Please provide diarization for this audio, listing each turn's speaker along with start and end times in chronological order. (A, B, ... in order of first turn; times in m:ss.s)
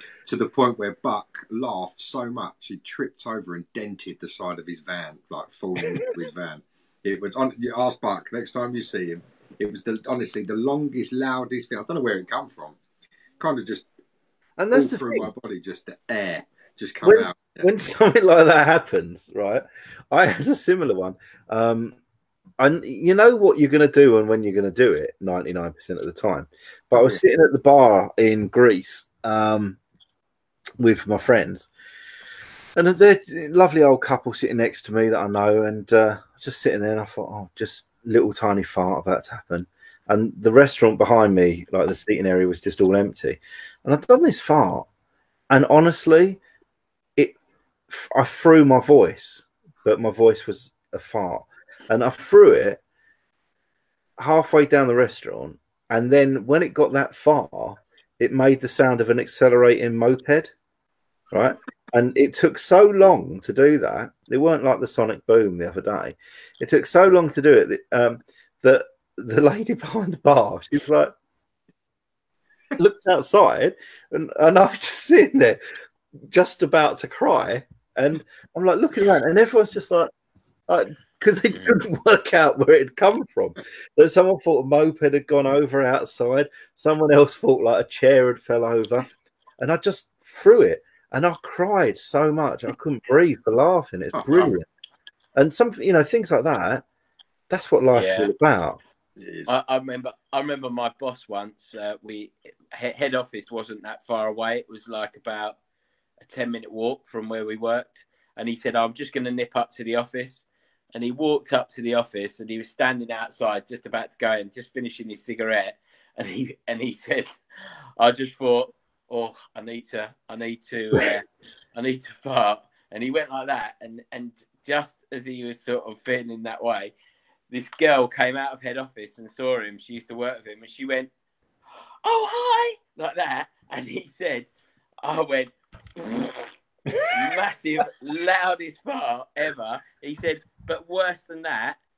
0:00.3-0:12.8 A
0:13.4-0:13.9 A
0:14.6-0:15.3 B
0:14.7-0:17.7 A
0:17.0-0:22.0 B
0:22.6-0:29.8 B
0:27.0-0:27.2 A
0:30.8-0:31.7 B
0:32.8-0:44.9 B
0:45.5-0:46.4 B
0:47.9-0:52.8 B
0:54.2-1:00.5 B
1:01.3-1:11.1 B
1:12.8-1:15.6 B
1:16.3-1:20.1 B
1:20.7-1:29.1 B
1:29.6-1:34.7 B
1:34.1-1:34.5 A
1:35.4-1:36.8 B
1:37.5-1:38.8 B
1:37.9-1:38.3 C
1:39.2-1:39.6 A
1:39.5-1:45.6 C
1:46.2-1:57.4 C
1:58.0-2:06.9 C
2:07.5-2:11.1 C
2:12.0-2:14.5 C
2:15.0-2:16.5 C
2:17.1-2:21.8 C